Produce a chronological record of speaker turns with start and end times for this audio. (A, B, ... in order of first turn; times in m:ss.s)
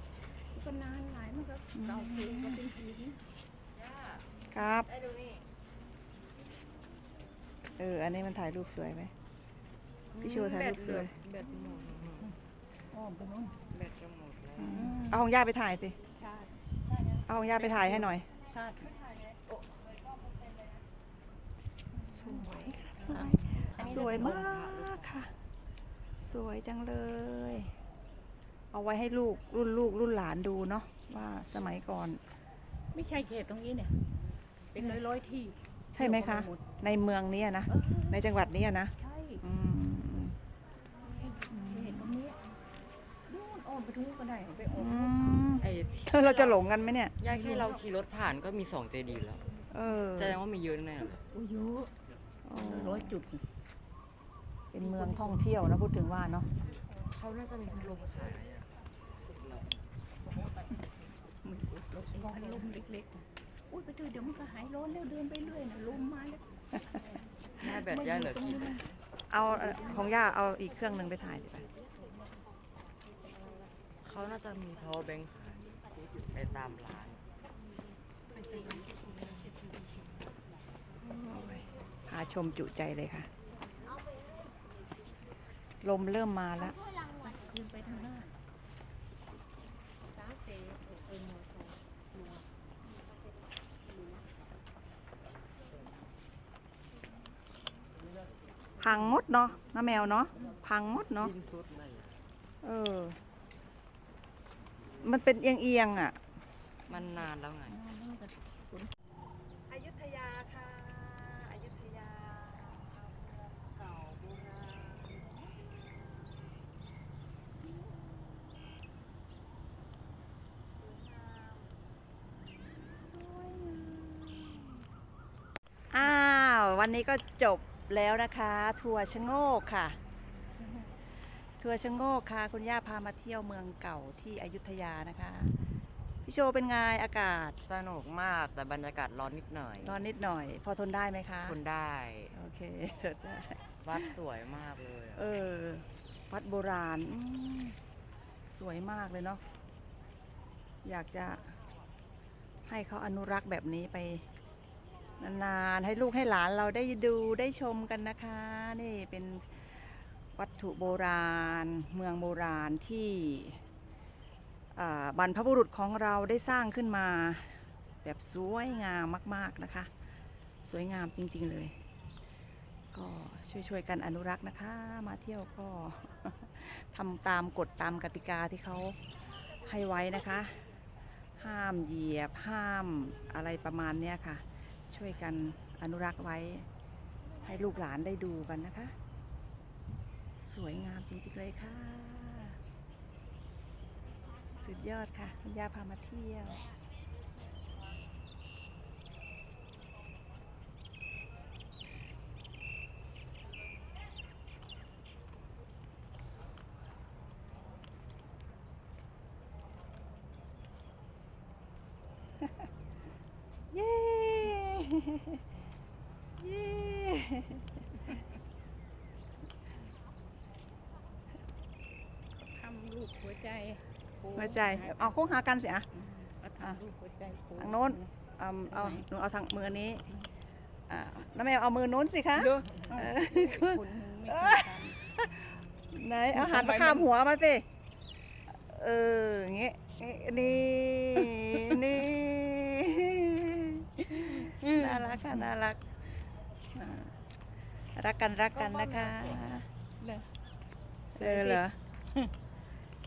0:00.5-0:03.2 A
0:01.7-0:02.6 B
0:03.7-0:04.2 C
0:04.5-0:04.9 B
0:04.8-0:05.4 C
0:07.8-0:09.1 B
0:10.1-0:12.3 C
0:10.2-0:11.1 B
0:12.9-0:13.6 A
0:13.7-0:14.9 C
0:14.6-0:16.0 B
0:14.7-0:15.2 A
0:16.2-0:16.5 A
0:17.2-0:18.3 B
0:17.6-0:18.9 A
0:21.9-0:24.4 A
0:22.0-0:25.3 B
0:23.2-0:25.1 C
0:26.2-0:27.7 B
0:28.7-0:32.2 B
0:32.9-0:34.0 A
0:34.7-0:36.6 A
0:34.8-0:35.0 B
0:35.9-0:40.3 B
0:37.7-0:38.2 A
0:39.0-0:39.4 A
0:41.0-0:42.4 A
0:41.5-0:42.2 B
0:43.3-0:45.2 A
0:44.7-0:47.2 B
0:45.6-0:46.7 C
0:47.2-0:49.4 C
0:49.7-0:50.4 B
0:50.1-0:51.2 C
0:51.3-0:51.9 A
0:52.4-0:53.1 B
0:52.6-0:53.4 A
0:54.7-0:56.5 B
0:57.1-0:58.7 C
1:01.4-1:06.4 A
1:07.6-1:08.8 C
1:07.6-1:08.8 A
1:09.3-1:11.7 B
1:14.0-1:15.6 C
1:16.3-1:17.2 C
1:21.0-1:23.3 B
1:25.8-1:26.8 B
1:27.2-1:28.3 A
1:38.8-1:41.3 B
1:41.2-1:42.1 C
1:42.6-1:43.2 B
1:45.0-1:46.2 B
1:46.9-1:47.8 C
1:46.9-1:48.9 A
1:49.7-1:56.5 B
2:00.8-2:01.7 B
2:03.0-2:04.8 B
2:05.9-2:10.0 B
2:11.6-2:15.6 B
2:16.2-2:17.6 B
2:17.7-2:20.0 C
2:19.8-2:21.6 B
2:21.4-2:22.3 C
2:22.3-2:24.1 B
2:23.8-2:25.2 C
2:25.2-2:27.8 B
2:28.5-2:29.4 B
2:30.8-2:31.6 B
2:32.7-2:34.3 B
2:35.2-2:43.6 B
2:44.7-2:49.9 B
2:50.6-2:51.8 B
2:52.9-2:59.0 B
2:59.6-3:00.6 B
3:01.4-3:06.7 B
3:07.4-3:08.9 B
3:10.4-3:12.6 B
3:14.6-3:16.6 B
3:33.7-3:35.4 B
3:36.4-3:37.6 B
3:42.4-3:45.1 A
3:44.3-3:45.9 B
3:46.1-3:48.1 A
3:47.6-3:50.0 B
3:48.7-3:49.0 A
3:50.9-3:57.6 B
3:52.4-3:55.0 A
3:56.3-3:57.1 A
3:58.5-4:05.8 B
4:04.2-4:05.4 A
4:06.7-4:07.1 B
4:08.0-4:09.7 B
4:08.5-4:09.6 C
4:10.0-4:10.3 A
4:11.2-4:11.8 B
4:11.2-4:11.6 A